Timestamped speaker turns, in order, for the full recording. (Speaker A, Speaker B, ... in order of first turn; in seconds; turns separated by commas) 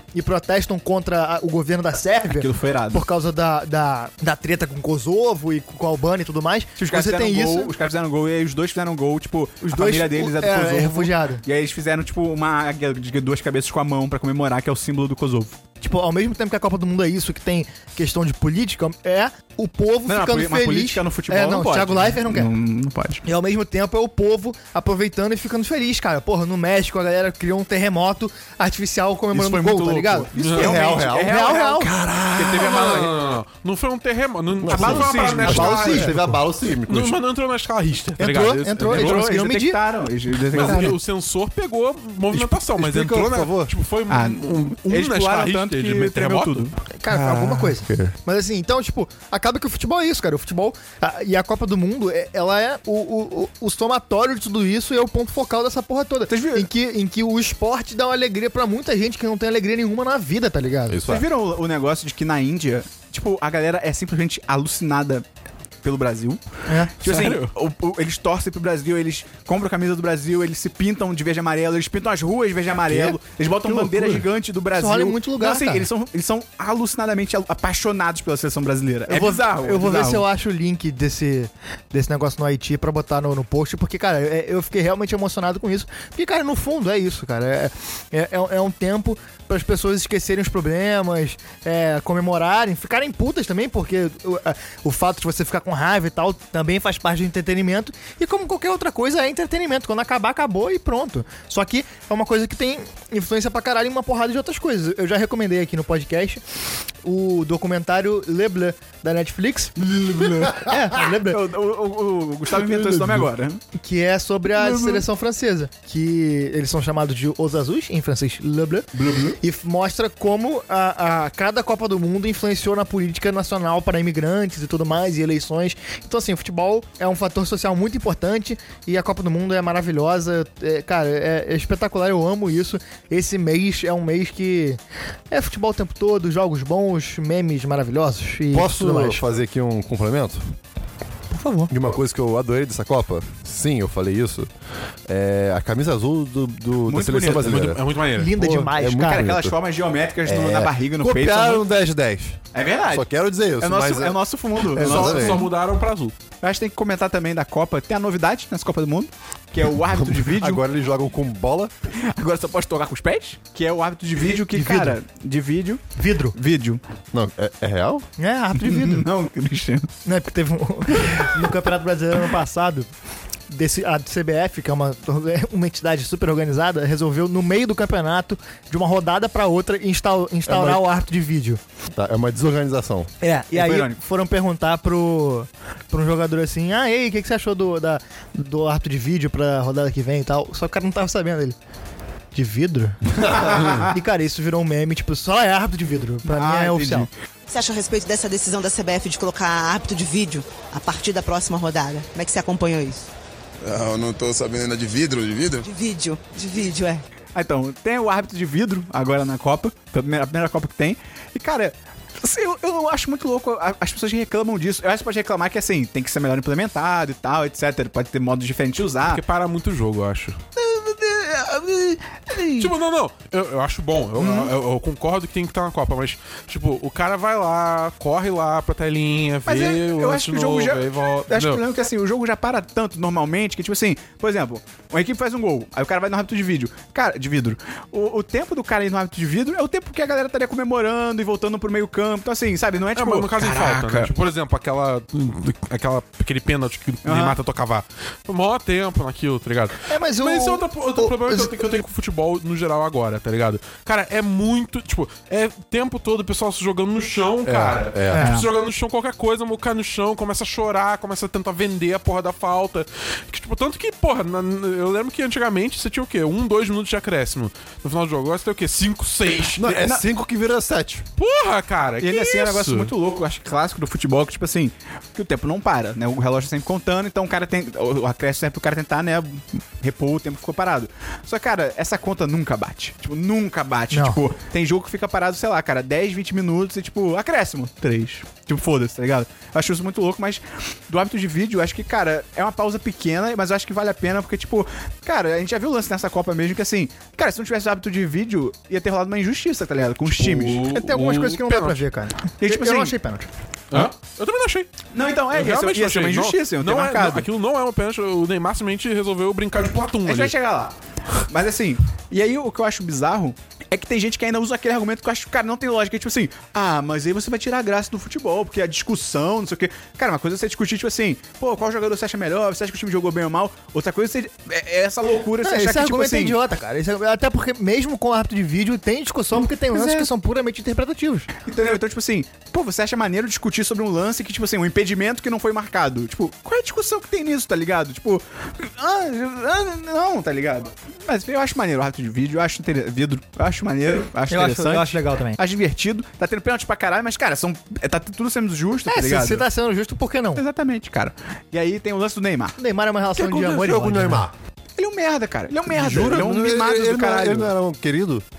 Speaker A: 0.1-7.7, Speaker B: 2.3-3.0, Speaker B: 6.8-15.6, Speaker A: 9.6-11.4, Speaker A: 15.8-22.5, Speaker B: 20.1-23.2, Speaker A: 23.2-31.9, Speaker B: 29.3-33.1, Speaker C: 30.4-33.1, Speaker D: 32.6-36.2, Speaker C: 34.6-37.2, Speaker B: 34.7-36.1, Speaker A: 35.7-36.4, Speaker D: 36.9-39.2, Speaker A: 38.2-39.8, Speaker B: 38.9-41.0, Speaker D: 40.5-46.7, Speaker C: 42.3-43.7, Speaker B: 44.1-46.8, Speaker A: 47.0-61.0, Speaker C: 47.1-48.1, Speaker B: 56.3-56.7, Speaker C: 60.9-61.3, Speaker B: 61.0-65.2, Speaker B: 65.8-66.4, Speaker A: 66.7-66.9, Speaker B: 67.0-80.2, Speaker D: 67.0-67.5, Speaker C: 72.9-74.2, Speaker A: 74.7-75.8, Speaker A: 79.1-106.4, Speaker A: 107.0-109.8, Speaker B: 109.8-113.6, Speaker A: 110.5-111.4, Speaker D: 112.6-113.2, Speaker A: 113.8-118.9, Speaker B: 114.6-115.0, Speaker B: 118.9-119.3, Speaker A: 119.4-134.8, Speaker A: 135.3-139.2, Speaker C: 138.5-140.5, Speaker A: 141.3-141.7, Speaker C: 141.7-144.5, Speaker C: 145.1-147.8, Speaker B: 146.9-147.7, Speaker D: 147.5-148.5, Speaker A: 148.2-149.3, Speaker C: 148.4-149.6, Speaker B: 149.0-151.6, Speaker C: 150.2-154.2, Speaker B: 152.5-155.5, Speaker C: 154.7-155.5, Speaker D: 154.7-156.1, Speaker B: 156.4-160.6, Speaker C: 159.9-161.7, Speaker B: 162.0-166.8, Speaker A: 164.5-164.9, Speaker A: 165.9-166.3, Speaker C: 167.1-168.1, Speaker A: 168.2-169.0, Speaker B: 168.6-169.9, Speaker A: 170.0-172.9, Speaker B: 171.0-171.3, Speaker A: 173.5-181.6, Speaker C: 180.5-180.8, Speaker C: 181.9-183.1, Speaker A: 183.2-191.6, Speaker B: 183.5-184.0, Speaker A: 192.3-197.1, Speaker B: 196.2-197.1, Speaker E: 197.5-203.1, Speaker F: 203.6-205.7, Speaker E: 205.6-207.0, Speaker B: 207.3-219.2, Speaker D: 219.0-220.4, Speaker B: 220.6-222.7, Speaker D: 222.6-231.6, Speaker B: 224.2-224.5, Speaker B: 229.5-244.1, Speaker D: 242.9-269.8, Speaker B: 247.0-247.3, Speaker A: 249.9-251.5, Speaker C: 257.4-258.2, Speaker A: 258.1-258.4, Speaker B: 258.2-258.4, Speaker C: 269.6-271.1, Speaker D: 271.2-272.9, Speaker B: 272.0-300.6, Speaker A: 283.9-284.2, Speaker D: 300.1-301.8, Speaker A: 300.7-303.3, Speaker B: 302.4-302.9, Speaker D: 303.7-304.7, Speaker B: 304.9-307.2, Speaker D: 305.3-310.3, Speaker B: 310.1-326.4, Speaker A: 325.4-331.3, Speaker B: 329.7-330.1, Speaker B: 331.4-349.4, Speaker A: 344.3-345.4, Speaker A: 348.9-350.4, Speaker B: 350.4-352.5, Speaker A: 352.6-354.2, Speaker C: 353.1-354.3, Speaker B: 354.8-357.5, Speaker C: 355.7-358.2